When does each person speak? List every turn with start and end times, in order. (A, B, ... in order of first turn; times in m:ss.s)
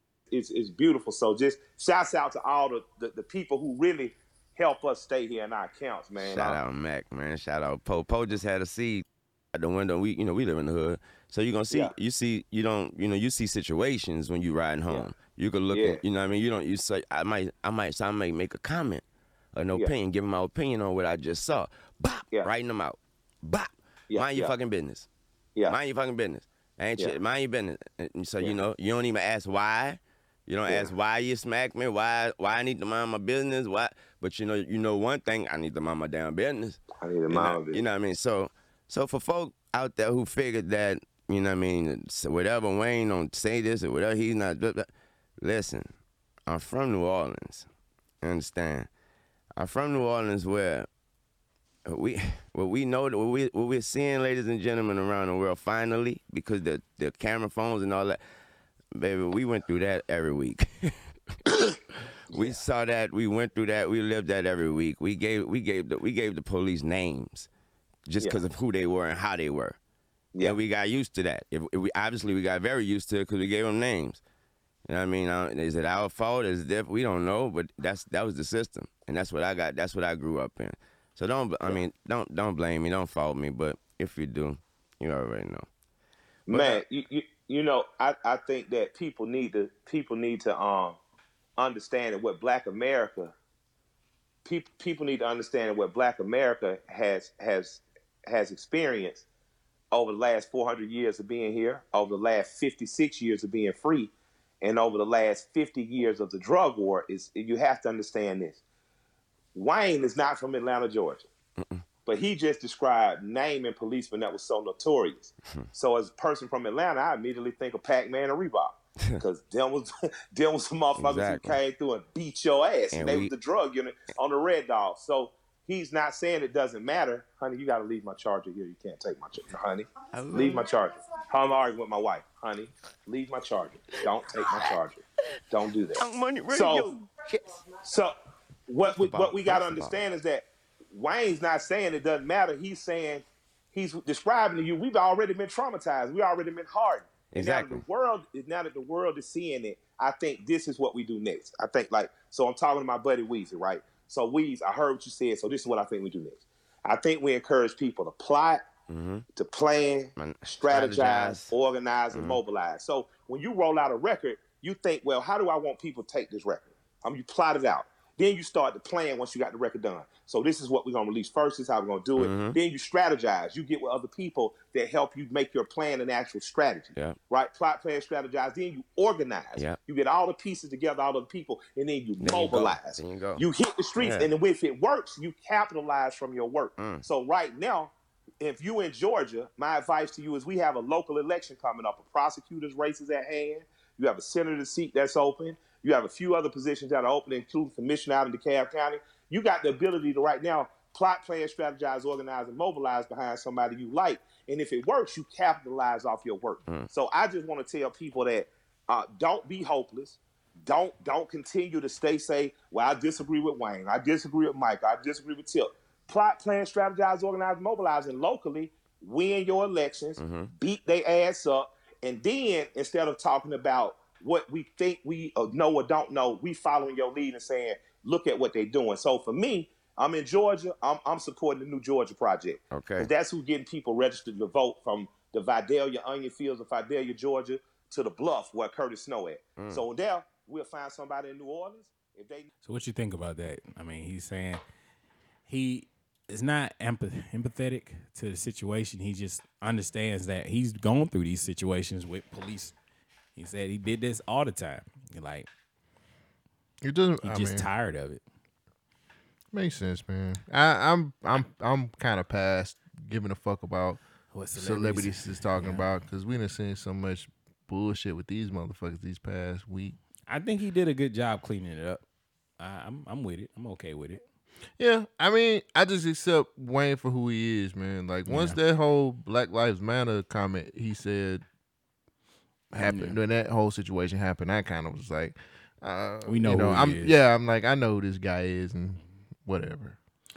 0:00.3-0:06.6 A
0:06.2-0:25.1 B
0:15.7-0:16.0 A
0:24.1-0:24.5 A
0:25.7-0:44.9 B
0:37.0-0:37.8 A
0:45.4-0:45.9 B
0:46.5-0:47.7 B
0:48.2-0:48.9 B
0:49.6-0:50.9 B
0:51.9-0:58.2 B
0:59.0-1:01.0 B
1:02.3-1:07.5 B
1:08.1-1:09.8 B
1:10.4-1:14.2 B
1:14.9-1:25.7 B
1:26.5-1:31.0 A
1:26.5-1:26.8 B
1:31.6-1:33.3 A
1:34.4-1:39.3 A
1:39.9-1:44.1 A
1:44.6-1:48.6 A
1:49.6-1:51.3 A
1:52.0-2:16.9 A
2:01.0-2:01.6 B
2:02.9-2:03.3 B
2:10.1-2:10.7 B
2:14.4-2:14.8 B
2:16.0-2:17.4 B
2:17.8-2:18.1 A
2:18.7-2:38.6 A
2:18.9-2:20.0 B
2:27.3-2:27.8 B
2:38.9-2:39.2 B
2:39.4-4:02.5 A
2:40.2-2:41.6 B
2:42.1-2:42.4 B
2:52.2-2:52.6 B
2:59.6-2:59.8 B
3:02.2-3:03.4 B
3:04.0-3:04.3 B
3:06.8-3:07.0 B
3:40.2-3:40.5 B
3:52.7-3:53.1 B
3:59.6-3:59.8 B
4:02.6-4:04.6 C
4:05.5-4:12.7 C
4:13.4-4:15.5 C
4:16.8-4:17.7 D
4:17.2-4:18.2 C
4:19.5-4:24.0 D
4:24.3-4:25.9 C
4:24.6-4:30.0 D
4:30.3-4:32.0 C
4:32.6-4:34.2 C
4:34.8-4:41.4 D
4:38.3-4:38.6 C
4:42.7-4:50.0 D
4:42.8-4:43.2 C
4:46.3-4:47.2 C